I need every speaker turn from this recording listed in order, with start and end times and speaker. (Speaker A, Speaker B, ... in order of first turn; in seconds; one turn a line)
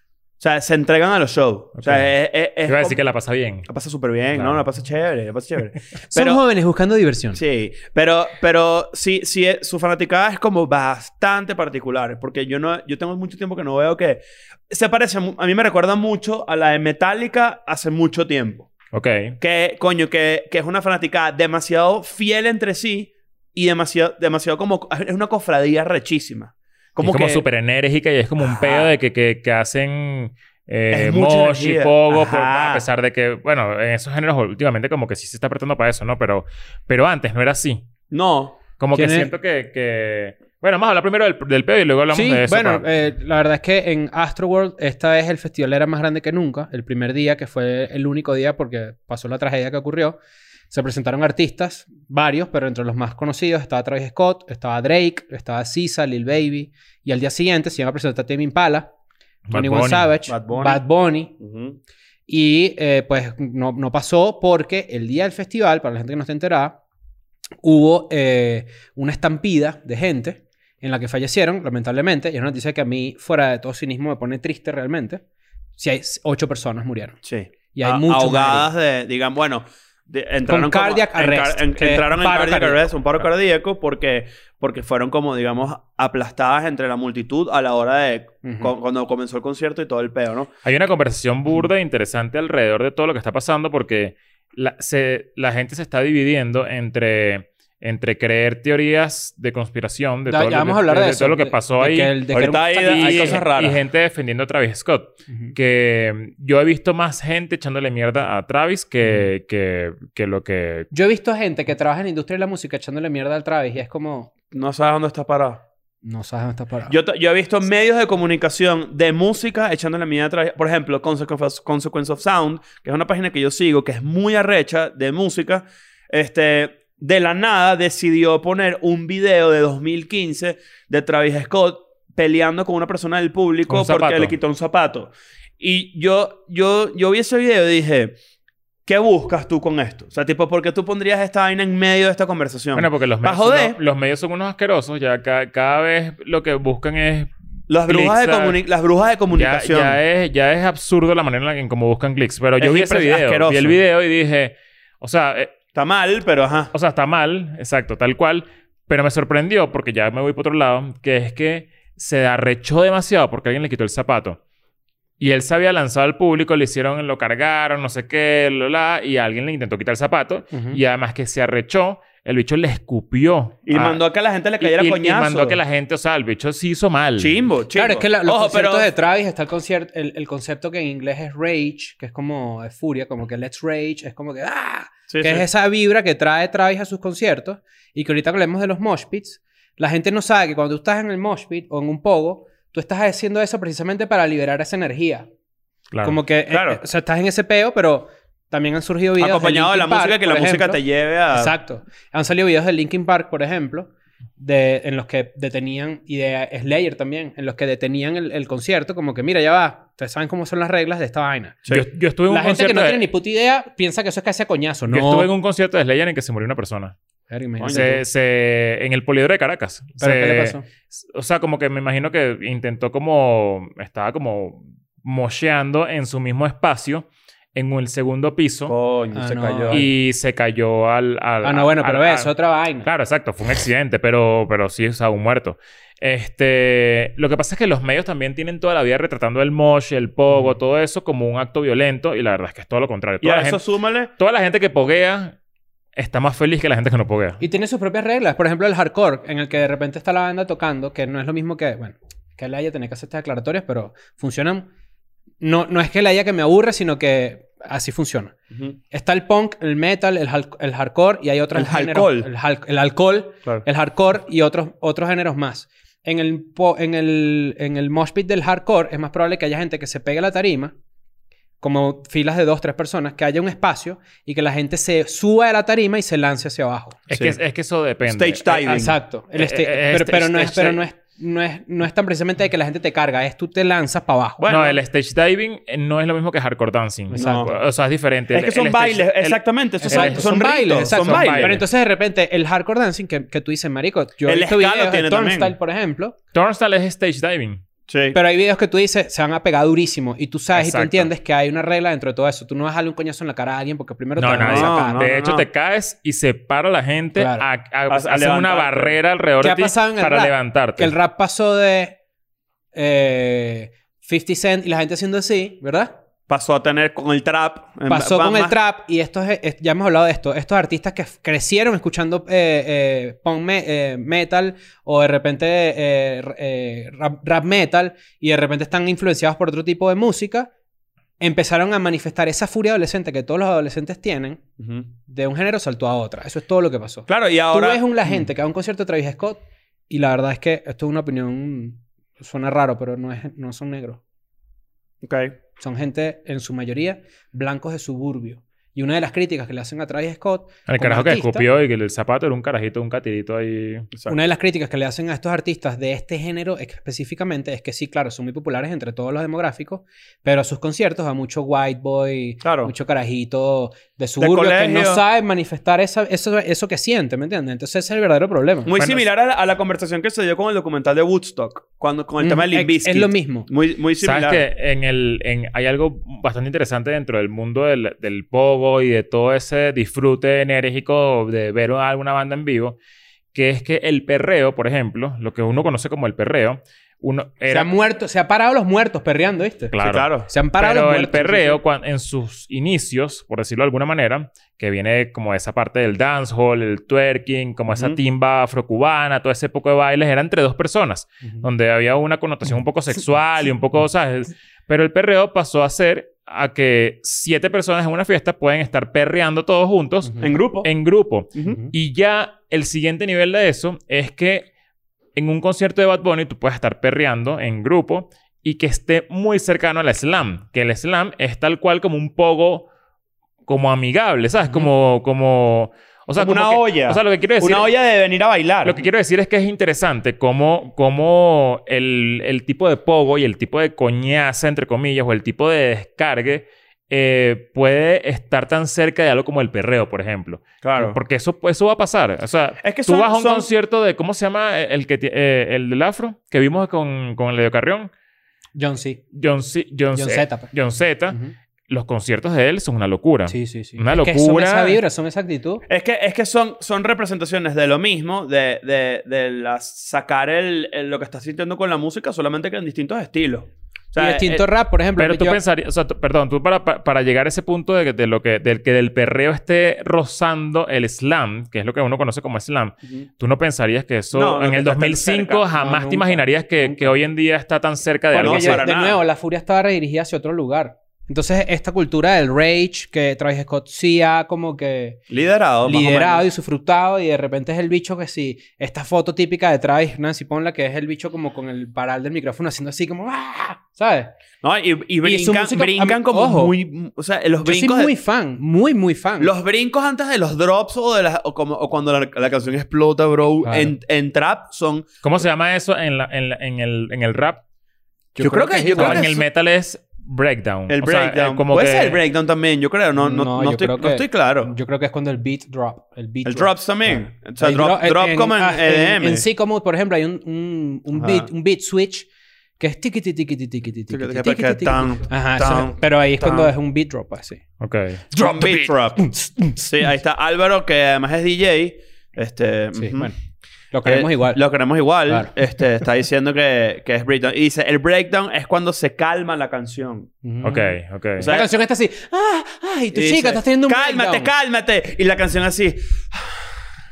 Speaker A: 0.4-3.0
Speaker B: 1.8-2.1
Speaker B: 2.6-3.7
Speaker A: 3.7-6.4
Speaker B: 4.3-4.7
Speaker C: 6.1-7.4
Speaker A: 7.3-18.7
Speaker B: 18.9-19.4
Speaker A: 19.4-27.4
Speaker B: 27.0-37.9
Speaker A: 28.4-28.9
Speaker A: 30.9-32.9
Speaker A: 38.1-38.6
Speaker B: 38.8-42.9
Speaker C: 38.9-39.3
Speaker C: 42.1-50.2
Speaker C: 50.7-58.9
Speaker B: 59.5-60.1
Speaker C: 59.5-61.4
Speaker A: 60.3-60.8
Speaker A: 61.4-61.8
Speaker C: 62.3-66.8
Speaker C: 67.6-75.2
Speaker C: 75.8-77.2
Speaker A: 77.2-90.5
Speaker C: 77.7-78.7
Speaker C: 80.5-82.8
Speaker C: 88.4-88.7
Speaker B: 90.6-102.2
Speaker C: 100.3-103.5
Speaker A: 102.3-103.8
Speaker B: 102.8-110.9
Speaker C: 110.9-114.3
Speaker A: 114.5-115.6
Speaker C: 116.0-117.0
Speaker A: 116.9-138.2
Speaker B: 133.7-134.3
Speaker A: 138.9-143.8
Speaker B: 142.8-147.3
Speaker A: 147.7-150.0
Speaker B: 147.8-148.6
Speaker B: 149.3-155.5
Speaker A: 152.6-153.8
Speaker A: 155.7-156.7
Speaker B: 156.7-164.4
Speaker B: 165.2-174.0
Speaker C: 170.5-170.8
Speaker A: 173.7-175.6
Speaker B: 174.6-177.4
Speaker A: 177.2-178.9
Speaker C: 177.8-195.3
Speaker A: 185.1-185.5
Speaker B: 195.9-196.2
Speaker C: 196.0-200.8
Speaker A: 196.5-196.8
Speaker A: 199.2-201.6
Speaker C: 201.3-211.6
Speaker B: 211.7-213.0
Speaker C: 212.3-215.3
Speaker B: 214.9-217.0
Speaker C: 217.3-218.0
Speaker A: 217.6-218.0
Speaker B: 217.7-228.8
Speaker C: 220.0-220.7
Speaker A: 228.7-229.9
Speaker C: 229.2-229.8
Speaker B: 229.7-232.3
Speaker C: 231.4-232.9
Speaker B: 232.8-243.6
Speaker A: 243.2-244.1
Speaker B: 244.2-245.4
Speaker B: 246.0-247.4
Speaker C: 247.4-254.7
Speaker C: 255.4-258.3
Speaker C: 258.9-270.7
Speaker A: 261.5-262.3
Speaker C: 271.6-277.0
Speaker B: 277.1-278.8
Speaker A: 277.1-277.4
Speaker A: 278.1-278.9
Speaker C: 278.6-284.4
Speaker B: 279.4-280.8
Speaker A: 284.4-284.8
Speaker B: 284.5-291.6
Speaker C: 287.1-287.6
Speaker A: 287.1-287.6
Speaker A: 288.3-291.6
Speaker C: 289.8-296.2
Speaker A: 294.3-295.5
Speaker B: 296.3-297.6
Speaker A: 297.9-298.2
Speaker C: 298.1-305.0
Speaker B: 300.5-301.1
Speaker B: 304.2-310.9
Speaker A: 304.4-305.5
Speaker C: 307.2-307.5
Speaker A: 307.9-309.0
Speaker C: 309.4-312.0
Speaker C: 312.7-316.0
Speaker A: 316.3-318.6
Speaker C: 317.9-330.5
Speaker C: 331.2-334.4
Speaker A: 334.6-334.9
Speaker C: 335.1-344.0
Speaker A: 337.1-338.2
Speaker A: 345.0-345.4
Speaker C: 345.6-351.5
Speaker B: 350.7-353.9
Speaker C: 354.1-368.7
Speaker A: 362.4-362.7
Speaker A: 364.2-365.0
Speaker A: 368.7-374.4
Speaker B: 368.8-369.1
Speaker C: 372.2-373.5
Speaker B: 374.0-382.8
Speaker B: 383.3-387.7
Speaker C: 387.5-389.8
Speaker B: 389.7-414.5
Speaker A: 389.8-390.3
Speaker C: 390.3-391.6
Speaker A: 410.2-410.7
Speaker B: 415.1-422.7
Speaker B: 423.5-427.7
Speaker A: 426.2-428.8
Speaker B: 428.6-447.9
Speaker A: 440.6-441.0
Speaker A: 442.6-443.5
Speaker C: 448.6-449.0
Speaker B: 449.1-451.2
Speaker C: 449.9-450.5
Speaker B: 451.7-454.8
Speaker C: 453.3-455.6
Speaker A: 455.7-464.4
Speaker C: 464.0-465.4
Speaker B: 465.0-478.6
Speaker A: 474.1-475.4
Speaker C: 475.5-476.9
Speaker C: 478.1-485.0
Speaker A: 478.1-479.0
Speaker A: 485.1-486.3
Speaker C: 485.6-494.1
Speaker A: 494.4-497.9
Speaker C: 495.0-496.5
Speaker C: 497.4-499.3
Speaker A: 499.2-504.9
Speaker C: 503.4-503.7
Speaker B: 505.0-507.4
Speaker C: 508.1-509.1
Speaker A: 508.2-509.2
Speaker B: 508.7-512.0
Speaker A: 510.7-514.5
Speaker C: 513.0-522.1
Speaker A: 516.2-519.2
Speaker A: 521.0-521.3
Speaker C: 522.6-527.4
Speaker A: 523.9-526.5
Speaker B: 527.6-528.1
Speaker C: 528.1-529.6
Speaker A: 528.1-533.1
Speaker C: 532.8-533.2
Speaker C: 533.7-534.4
Speaker A: 533.9-540.1
Speaker C: 540.2-540.8
Speaker B: 540.4-541.3
Speaker A: 541.2-541.5
Speaker C: 541.3-544.3
Speaker A: 542.9-546.4